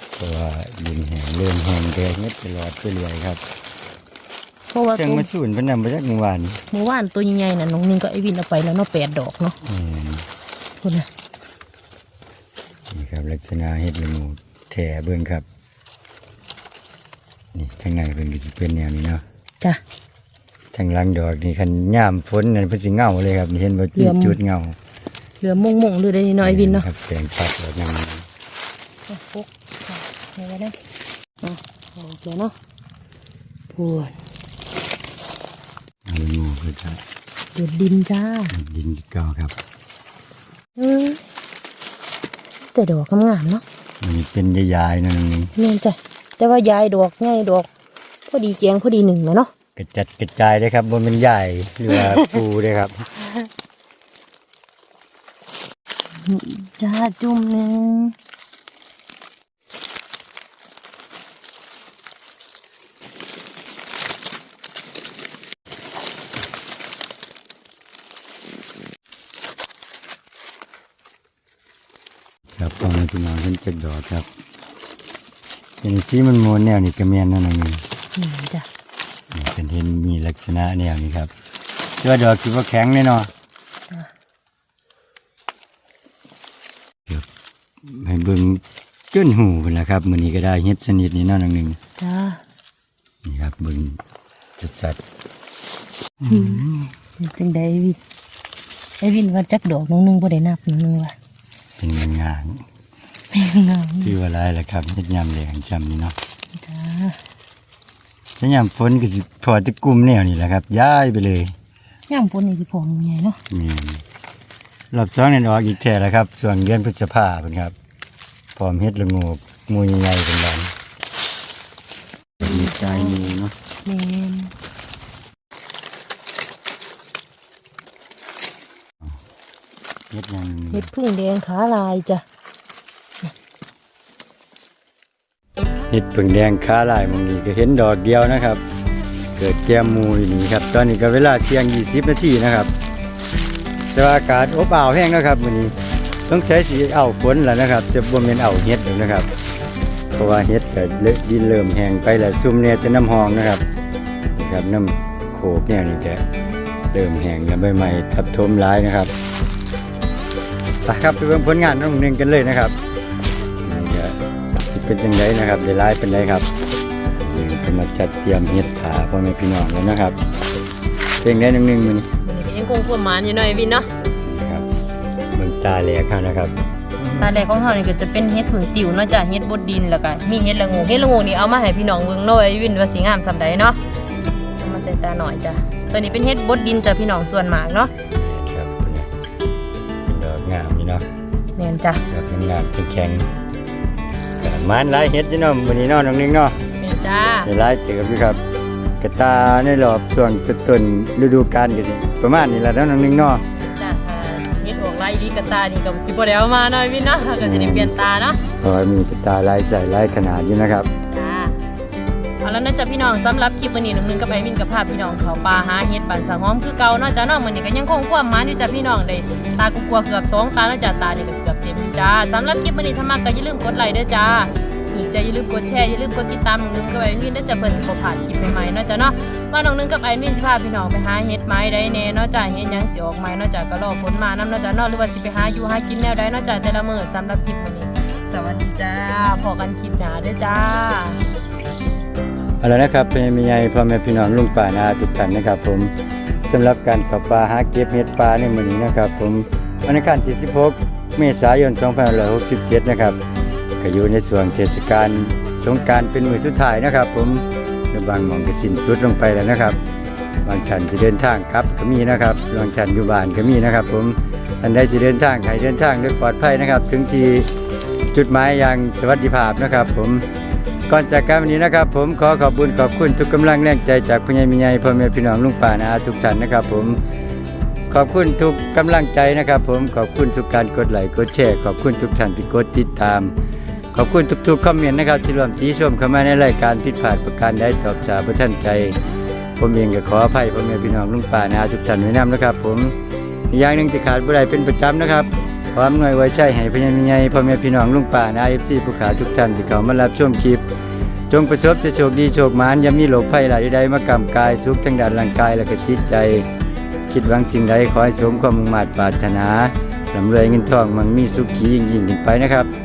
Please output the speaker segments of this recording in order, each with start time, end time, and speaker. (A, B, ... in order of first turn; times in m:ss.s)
0:00.2-0:03.4 A
0:04.7-0:05.3 B
0:05.0-0:06.6 A
0:06.7-0:09.6 B
0:09.6-0:10.2 A
0:10.8-0:11.1 B
0:12.9-0:15.4 A
0:17.5-0:19.2 A
0:20.7-0:24.8 A
0:23.9-0:24.4 B
0:25.4-0:26.9 B
0:26.4-0:28.3 A
0:29.1-0:30.8 B
0:31.4-0:32.5 B
0:33.7-0:34.2 B
0:36.0-0:37.0 A
0:37.5-0:38.5 B
0:38.5-0:39.5 A
0:40.8-0:41.2 B
0:42.7-0:43.6 B
0:44.0-0:45.5 A
0:45.6-0:47.7 B
0:48.3-0:49.5 B
0:49.8-0:53.0 A
0:51.9-0:52.2 B
0:56.1-0:58.1 B
1:12.5-1:14.3 A
1:15.8-1:17.8 A
1:18.1-1:18.7 B
1:19.3-1:21.3 A
1:22.0-1:23.3 A
1:27.8-1:31.8 A
1:32.0-1:32.4 B
1:33.2-1:34.0 A
1:34.6-1:35.0 A
1:36.2-1:36.9 A
1:36.3-1:36.6 B
1:37.2-1:38.0 B
1:39.0-1:41.2 B
1:41.8-1:42.6 A
1:43.3-1:44.1 B
1:44.0-1:46.2 A
1:46.5-1:47.2 B
1:48.4-1:51.5 A
1:52.1-1:53.4 B
1:53.5-1:54.0 A
1:54.9-1:57.7 A
1:58.6-2:00.7 A
2:02.4-2:03.5 A
2:02.4-2:03.3 B
2:03.8-2:04.5 B
2:10.1-2:10.9 A
2:10.7-2:12.2 B
2:15.9-2:18.6 A
2:19.4-2:22.7 A
2:23.9-2:25.7 A
2:26.3-2:29.3 A
2:30.1-2:33.6 A
2:34.3-2:36.2 A
2:36.9-2:39.1 A
2:40.8-2:42.8 A
2:43.6-2:44.2 A
2:44.7-2:46.5 A
2:47.2-2:50.2 A
2:51.2-2:52.1 A
2:52.2-2:53.9 B
2:54.2-2:54.6 A
2:55.3-2:56.5 A
2:57.2-3:03.8 B
3:04.6-3:07.9 B
3:08.1-3:09.1 A
3:10.1-3:11.1 A
3:11.6-3:12.0 B
3:12.1-3:13.3 A
3:14.4-3:16.6 A
3:16.8-3:17.5 B
3:17.4-3:18.4 A
3:19.0-3:23.4 A
3:23.5-3:28.4 B
3:27.4-3:27.9 A
3:28.6-3:30.9 A
3:31.1-3:31.6 B
3:32.4-4:01.2 B
4:02.6-4:05.9 A
4:06.4-4:13.2 A
4:13.8-4:19.8 A
4:20.4-4:27.5 A
4:28.1-4:30.2 A
4:30.9-4:37.0 A
4:37.9-4:43.3 A
4:43.9-4:49.0 A
4:49.6-4:52.9 A
4:53.5-5:00.6 A
5:01.3-5:06.5 A
5:07.1-5:12.7 A